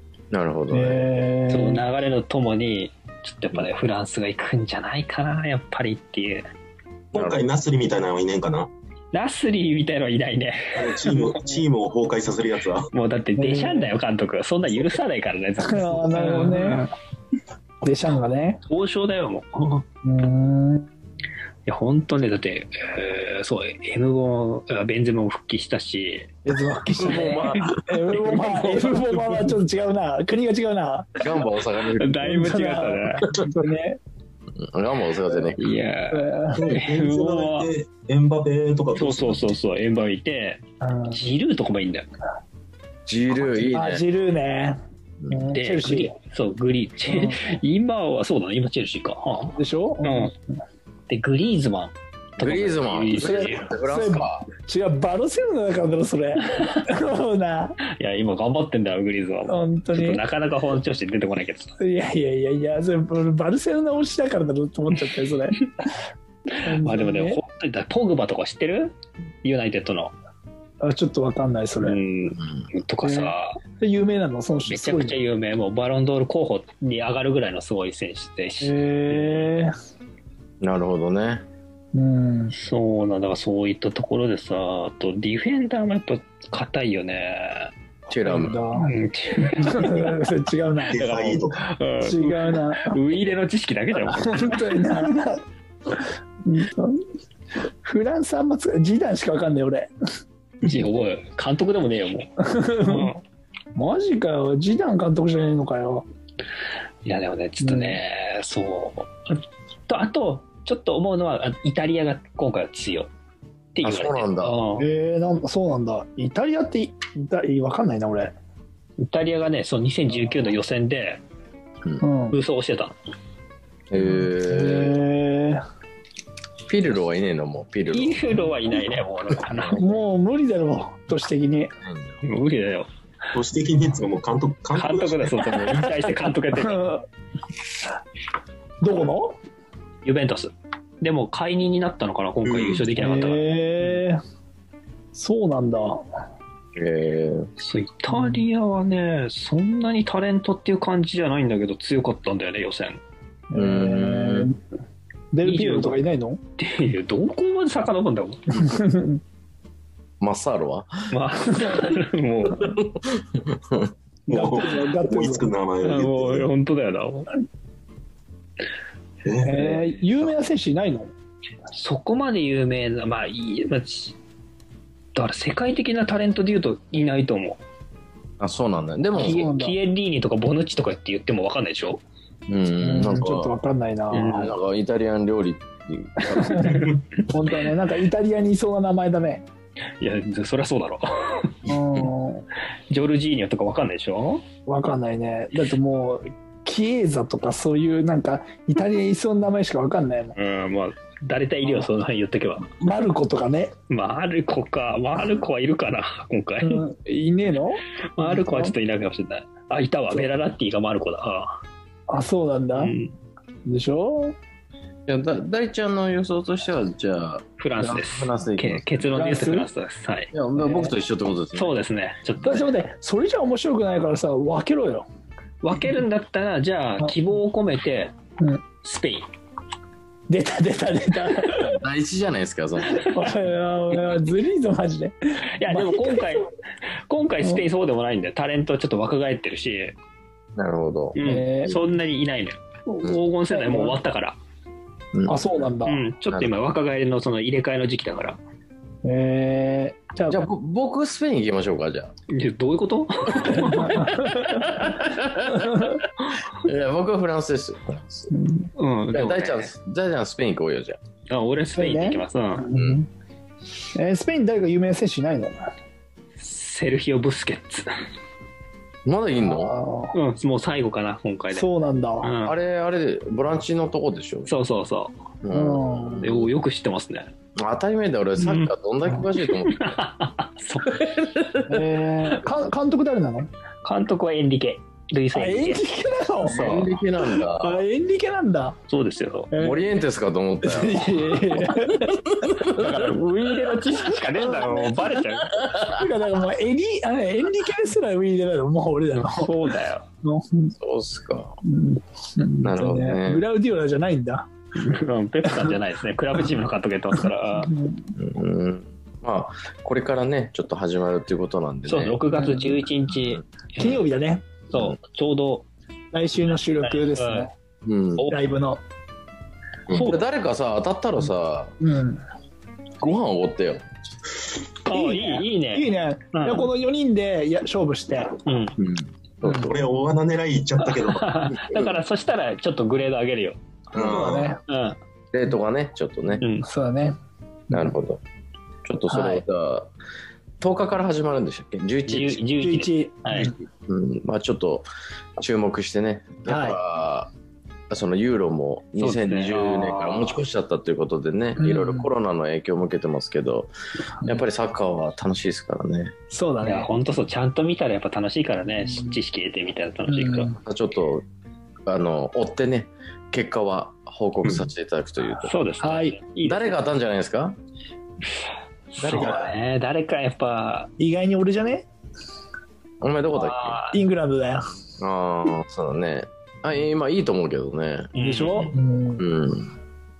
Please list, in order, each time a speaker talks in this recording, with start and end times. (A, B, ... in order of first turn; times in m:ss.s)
0:00.3-0:01.2 A
0:00.7-0:01.8 B
0:01.5-0:06.5 C
0:07.1-0:08.7 D
0:07.1-0:07.4 A
0:09.1-0:11.2 C
0:10.8-0:12.9 D
0:12.9-0:16.9 C
0:13.4-0:14.0 B
0:15.6-0:16.9 B
0:17.8-0:18.6 B
0:18.7-0:19.8 C
0:20.0-0:20.9 B
0:21.7-0:26.3 C
0:26.4-0:31.3 B
0:27.0-0:27.8 A
0:27.0-0:29.0 C
0:31.2-0:32.6 A
0:32.0-0:33.3 C
0:32.2-0:34.0 B
0:34.6-0:35.7 A
0:35.6-0:37.7 C
0:36.1-0:36.7 B
0:36.5-0:39.6 D
0:39.0-0:42.1 C
0:40.8-0:41.2 B
0:43.1-0:44.0 A
0:43.7-0:46.1 B
0:45.2-0:45.5 A
0:45.5-0:50.3 C
0:47.1-0:47.6 B
0:49.6-0:50.4 B
0:51.1-0:53.7 C
0:52.4-0:54.5 A
0:53.1-0:57.8 B
0:57.9-1:01.8 C
0:59.5-1:00.2 B
1:01.8-1:05.7 B
1:06.5-1:10.1 C
1:06.6-1:07.4 B
1:10.8-1:12.0 B
1:11.8-1:13.6 C
1:12.4-1:12.7 A
1:13.0-1:15.2 B
1:14.7-1:19.5 C
1:18.6-1:19.7 B
1:20.6-1:21.4 A
1:21.9-1:22.6 B
1:22.5-1:27.7 C
1:28.1-1:28.9 B
1:28.1-1:28.6 A
1:28.8-1:30.2 C
1:29.5-1:31.4 B
1:30.9-1:31.7 D
1:31.0-1:34.6 C
1:32.0-1:33.0 B
1:34.0-1:35.4 B
1:36.4-1:37.0 B
1:37.8-1:39.9 B
1:40.6-1:43.2 C
1:42.4-1:43.1 B
1:43.8-1:46.0 B
1:47.0-1:53.1 C
1:47.6-1:48.0 B
1:53.7-1:54.9 C
1:53.8-1:54.6 A
1:54.8-1:58.4 B
1:59.0-2:01.2 C
2:02.0-2:02.4 B
2:02.3-2:03.0 C
2:03.9-2:05.0 A
2:04.5-2:05.6 B
2:06.7-2:08.4 A
2:07.9-2:09.9 C
2:09.5-2:09.9 A
2:09.7-2:11.7 B
2:11.8-2:12.2 A
2:12.2-2:12.9 C
2:13.3-2:15.6 D
2:14.8-2:16.8 C
2:16.5-2:17.0 B
2:18.8-2:19.4 B
2:20.0-2:23.5 C
2:22.5-2:22.8 D
2:23.0-2:24.2 B
2:25.1-2:26.0 B
2:26.8-2:27.5 A
2:27.6-2:33.0 C
2:28.1-2:28.4 B
2:33.5-2:34.6 B
2:33.5-2:34.5 A
2:35.3-2:36.4 B
2:35.4-2:36.0 C
2:36.6-2:38.7 C
2:38.6-2:39.2 B
2:40.2-2:41.1 A
2:41.1-2:42.8 C
2:42.6-2:43.9 A
2:44.3-2:46.5 D
2:44.3-2:45.5 B
2:45.8-2:47.3 C
2:49.2-2:49.8 D
2:49.4-2:51.1 B
2:51.7-2:54.2 C
2:55.2-2:57.6 C
2:58.4-2:59.5 A
2:59.2-3:02.0 C
2:59.2-2:59.8 B
3:02.5-3:03.6 A
3:02.8-3:04.5 B
3:04.1-3:04.5 C
3:04.2-3:06.9 A
3:06.2-3:09.5 B
3:06.8-3:07.3 C
3:10.0-3:11.6 C
3:11.7-3:12.5 B
3:12.9-3:14.4 C
3:14.7-3:20.4 B
3:20.4-3:22.7 C
3:22.8-3:23.8 B
3:23.9-3:26.8 C
3:26.6-3:28.8 B
3:28.2-3:31.6 C
3:32.1-3:32.9 B
3:32.8-3:33.2 C
3:33.6-3:34.4 B
3:35.1-3:39.4 A
3:37.6-3:40.3 C
3:39.1-3:39.7 B
3:40.3-3:41.8 A
3:40.6-3:40.9 B
3:41.6-3:42.7 C
3:42.4-3:45.1 B
3:45.6-3:48.1 C
3:48.8-3:49.3 C
3:50.3-3:51.8 B
3:51.5-3:53.3 A
3:52.9-3:56.5 B
3:55.6-4:00.0 C
4:00.6-4:01.8 A
4:01.2-4:04.4 C
4:01.2-4:01.8 B
4:03.5-4:04.0 B
4:05.1-4:05.7 A
4:05.3-4:06.0 B
4:05.9-4:08.4 C
4:09.0-4:10.4 B
4:10.3-4:12.1 A
4:12.3-4:14.7 C
4:13.4-4:18.3 A
4:13.6-4:14.7 B
4:15.6-4:16.0 B
4:18.3-4:18.7 B
4:18.8-4:19.7 C
4:19.1-4:21.0 A
4:21.3-4:22.7 C
4:21.8-4:23.1 B
4:22.7-4:23.0 A
4:23.9-4:25.7 B
4:26.4-4:27.9 C
4:29.0-4:29.8 A
4:29.4-4:30.2 B
4:30.1-4:31.7 C
4:31.5-4:32.3 B
4:32.2-4:32.6 C
4:32.4-4:34.5 A
4:34.5-4:35.1 C
4:35.4-4:36.5 A
4:35.5-4:36.3 B
4:36.2-4:37.3 C
4:37.6-4:39.8 A
4:38.4-4:41.7 C
4:41.7-4:43.5 B
4:43.8-4:45.9 C
4:45.3-4:48.8 B
4:46.4-4:46.9 C
4:46.4-4:47.8 A
4:48.9-4:49.5 C
4:49.5-4:49.8 B
4:49.5-4:53.0 A
4:50.6-4:52.2 B
4:52.7-4:55.7 C
4:54.2-4:55.2 B
4:55.6-4:56.0 A
4:55.8-4:59.6 B
4:59.2-5:00.1 C
5:00.2-5:00.7 B
5:00.8-5:01.6 A
5:01.6-5:04.5 B
5:02.6-5:03.4 A
5:04.8-5:07.7 C
5:05.5-5:05.8 B
5:07.2-5:08.1 B
5:08.2-5:12.2 A
5:11.9-5:14.0 C
5:12.4-5:12.8 B
5:13.1-5:13.4 A
5:13.8-5:14.5 B
5:14.7-5:15.7 C
5:16.1-5:17.5 B
5:16.8-5:17.5 C
5:17.8-5:18.3 A
5:18.2-5:18.5 C
5:18.3-5:18.8 B
5:19.9-5:20.2 C
5:20.0-5:21.7 A
5:21.8-5:22.2 B
5:23.0-5:23.8 A
5:24.9-5:26.7 C
5:24.9-5:28.4 B
5:28.5-5:28.8 C
5:28.8-5:29.7 A
5:29.4-5:29.7 B
5:29.5-5:31.4 D
5:30.8-5:33.6 C
5:31.6-5:31.9 A
5:33.9-5:34.6 B
5:33.9-5:34.3 A
5:33.9-5:34.6 D
5:34.7-5:35.0 C
5:35.3-5:36.4 A
5:36.4-5:36.7 C
5:36.6-5:37.2 B
5:37.7-5:38.2 A
5:38.8-5:39.9 A
5:39.1-5:39.4 B
5:40.6-5:42.5 A
5:42.1-5:43.5 C
5:42.6-5:43.6 B
5:43.4-5:44.9 A
5:45.4-5:47.3 A
5:46.5-5:46.8 B
5:47.9-5:53.7 A
5:49.0-5:50.4 C
5:51.6-5:52.1 B
5:54.2-5:56.1 A
5:56.3-5:56.9 B
5:56.6-6:00.5 C
5:58.8-5:59.2 B
6:00.1-6:00.6 B
6:00.7-6:01.2 A
6:01.9-6:05.6 A
6:05.4-6:06.8 C
6:05.8-6:06.2 B
6:06.4-6:07.6 A
6:08.9-6:10.9 C
6:09.0-6:09.5 A
6:09.2-6:09.4 B
6:11.0-6:11.9 B
6:13.0-6:13.8 A
6:13.3-6:14.0 C
6:13.9-6:14.6 B
6:15.0-6:19.7 A
6:18.1-6:18.7 C
6:18.2-6:19.2 B